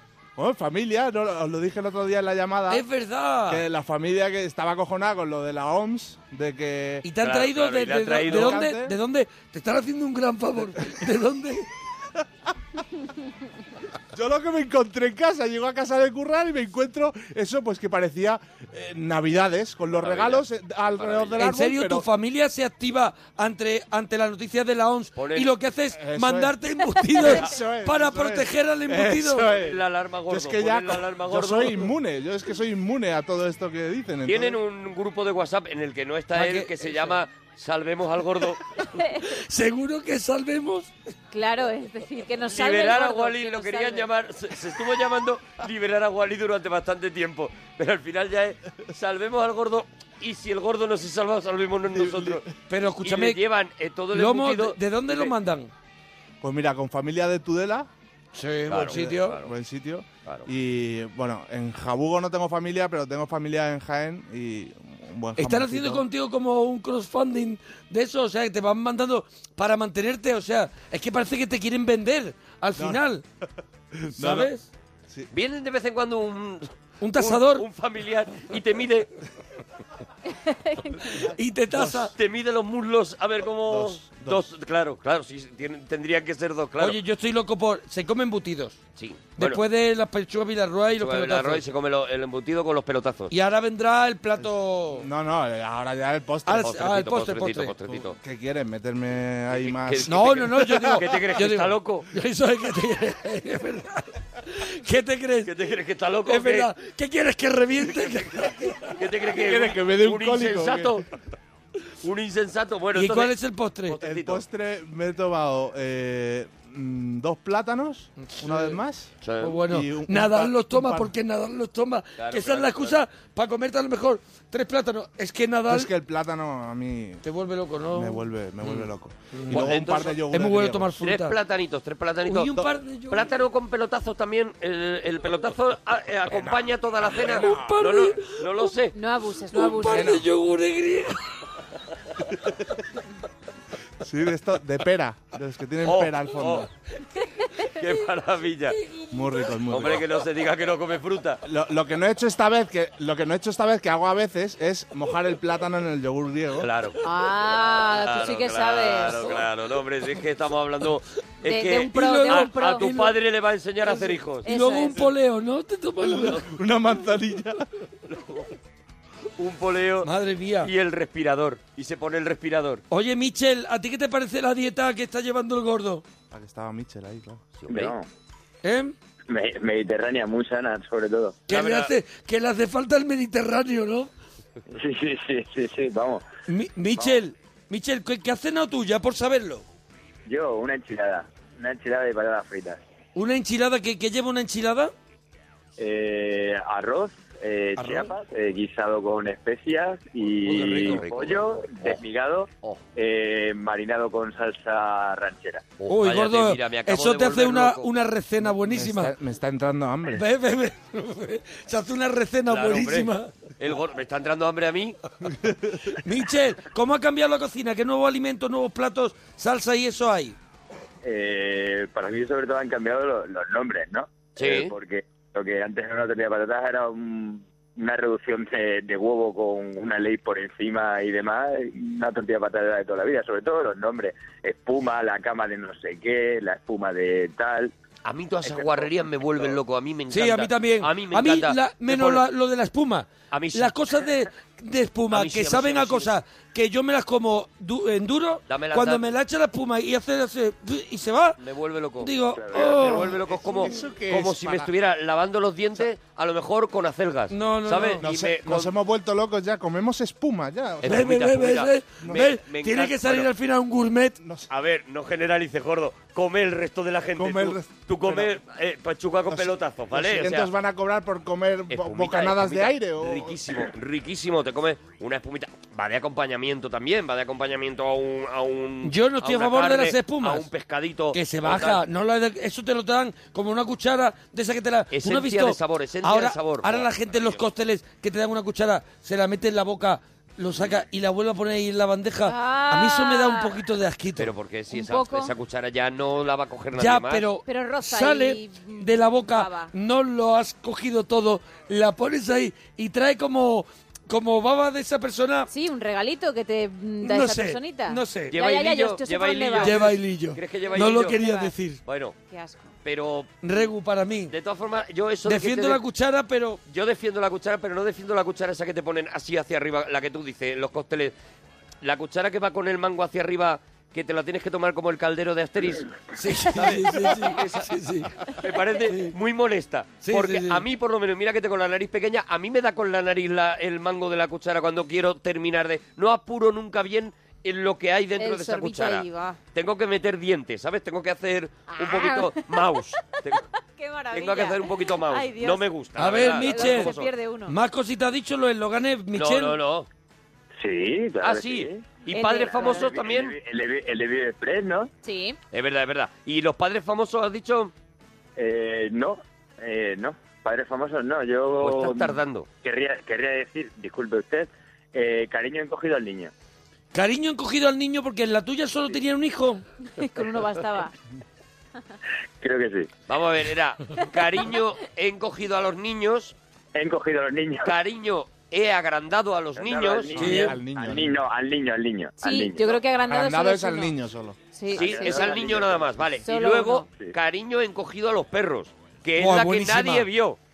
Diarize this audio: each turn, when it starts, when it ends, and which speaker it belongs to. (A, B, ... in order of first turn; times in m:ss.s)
0:00.4-0:02.8 A
0:02.7-0:03.6 B
0:03.5-0:07.0 A
0:07.0-0:11.6 B
0:07.2-0:08.7 C
0:08.1-0:09.0 A
0:14.1-0:22.0 A
0:20.0-0:21.5 C
0:21.4-0:29.5 B
0:25.2-0:25.5 C
0:25.9-0:26.6 A
0:27.2-0:34.6 A
0:29.5-0:31.9 C
0:34.2-0:38.6 C
0:36.3-0:37.2 B
0:39.2-0:40.9 B
0:41.3-0:44.1 D
0:42.5-0:52.4 C
0:51.9-0:52.5 A
0:52.7-0:53.4 B
0:53.0-0:55.3 C
0:54.1-0:55.7 B
0:56.4-0:57.9 A
0:58.3-0:59.4 B
0:58.7-0:59.5 C
0:58.8-1:06.0 A
1:05.4-1:13.2 B
1:14.0-1:14.5 A
1:14.1-1:14.6 B
1:15.3-1:19.1 C
1:17.0-1:17.6 B
1:20.3-1:21.0 D
1:21.2-1:22.1 B
1:21.8-1:27.0 C
1:23.7-1:24.4 A
1:26.8-1:28.8 B
1:29.0-1:29.6 C
1:29.4-1:31.6 B
1:31.0-1:33.3 C
1:33.3-1:35.1 B
1:34.4-1:36.8 A
1:36.4-1:37.7 B
1:36.6-1:38.2 C
1:37.9-1:41.0 A
1:39.5-1:42.1 C
1:40.0-1:45.5 B
1:45.4-1:46.7 C
1:46.2-1:49.0 B
1:47.8-1:51.0 C
1:49.4-1:51.0 A
1:52.0-1:53.3 C
1:52.9-1:54.0 B
1:53.9-1:54.4 C
1:54.0-1:59.1 A
1:58.2-1:58.8 B
1:59.2-1:59.6 C
1:59.4-2:05.9 B
1:59.7-2:01.1 A
2:02.2-2:03.0 C
2:05.7-2:07.2 A
2:07.2-2:08.2 B
2:07.9-2:11.0 A
2:09.3-2:11.4 B
2:09.5-2:10.2 C
2:11.0-2:18.9 C
2:12.2-2:13.2 B
2:16.3-2:17.9 A
2:17.3-2:18.3 B
2:18.9-2:20.2 D
2:19.5-2:21.2 B
2:19.9-2:20.2 A
2:24.0-2:26.7 A
2:25.8-2:26.7 C
2:27.7-2:28.8 C
2:29.1-2:30.0 A
2:29.7-2:31.4 C
2:31.4-2:36.7 A
2:36.6-2:37.1 C
2:37.0-2:39.5 D
2:37.6-2:44.5 C
2:41.4-2:42.8 D
2:41.7-2:43.1 B
2:43.9-2:46.4 B
2:44.4-2:45.0 D
2:46.0-2:47.6 A
2:46.2-2:46.5 C
2:48.1-2:48.5 C
2:49.4-2:50.1 C
2:50.0-2:50.7 B
2:50.6-2:52.8 C
2:52.9-2:56.0 B
2:56.3-2:57.4 A
2:57.6-2:57.9 C
2:57.7-2:58.1 E
2:58.6-2:58.9 B
2:59.3-3:01.4 E
3:01.5-3:04.1 B
3:01.5-3:01.9 C
3:04.7-3:06.2 E
3:06.5-3:09.6 B
3:07.0-3:07.2 E
3:10.2-3:12.8 E
3:13.1-3:14.9 B
3:15.8-3:25.6 E
3:20.4-3:22.0 C
3:25.8-3:27.9 C
3:25.9-3:29.1 B
3:28.5-3:30.2 A
3:30.1-3:33.3 B
3:32.5-3:35.0 C
3:36.0-3:40.4 B
3:41.0-3:57.7 E
3:44.4-3:44.7 C
3:58.0-4:02.2 C
3:58.4-3:58.9 E
4:00.1-4:11.4 B
4:03.3-4:03.7 C
4:05.1-4:06.1 C
4:08.5-4:09.1 C
4:11.4-4:18.7 C
4:12.0-4:13.1 B
4:12.4-4:12.8 E
4:12.8-4:14.7 A
4:17.3-4:18.0 B
4:18.0-4:21.1 A
4:20.8-4:23.3 C
4:20.8-4:24.2 B
4:24.2-4:24.5 A
4:24.5-4:30.5 C
4:27.2-4:28.4 A
4:29.3-4:33.6 A
4:31.7-4:41.8 C
4:38.8-4:40.5 B
4:41.1-4:54.3 B
4:44.9-4:47.4 C
4:52.3-4:53.6 D
4:54.2-4:57.3 C
4:54.7-4:55.3 D
4:56.7-5:05.5 B
4:57.4-4:59.7 D
5:05.5-5:09.9 D
5:07.0-5:08.4 B
5:08.3-5:11.2 C
5:09.6-5:11.8 B
5:10.9-5:11.5 D
5:11.8-5:12.1 C
5:12.3-5:12.7 D
5:12.8-5:13.3 C
5:13.4-5:14.3 B
5:14.3-5:15.8 C
5:15.2-5:16.6 B
5:16.7-5:21.1 C
5:21.8-5:26.0 C
5:26.1-5:28.1 B
5:26.5-5:27.7 C
5:28.2-5:43.4 C
5:28.8-5:29.1 B
5:30.0-5:30.6 B
5:38.2-5:39.4 D
5:41.8-5:42.6 D
5:43.8-5:47.5 D
5:44.1-5:47.1 C
5:46.0-5:49.6 B
5:49.1-5:49.9 C
5:50.6-5:52.0 E
5:51.2-5:53.4 C
5:52.1-5:52.9 D
5:52.5-5:54.9 E
5:55.0-5:55.4 D
5:55.5-5:57.7 C
5:58.4-6:06.3 E
6:01.6-6:02.5 C
6:06.9-6:09.6 B
6:10.0-6:10.9 D
6:12.4-6:12.9 E
6:13.1-6:16.3 C
6:16.7-6:17.7 E
6:17.6-6:20.5 C
6:19.6-6:22.8 E
6:20.2-6:20.5 B
6:20.2-6:21.2 A
6:22.2-6:24.0 D
6:23.0-6:24.4 A
6:24.5-6:25.4 D
6:24.7-6:26.1 E
6:24.7-6:30.4 C
6:26.2-6:26.9 D
6:29.2-6:30.1 B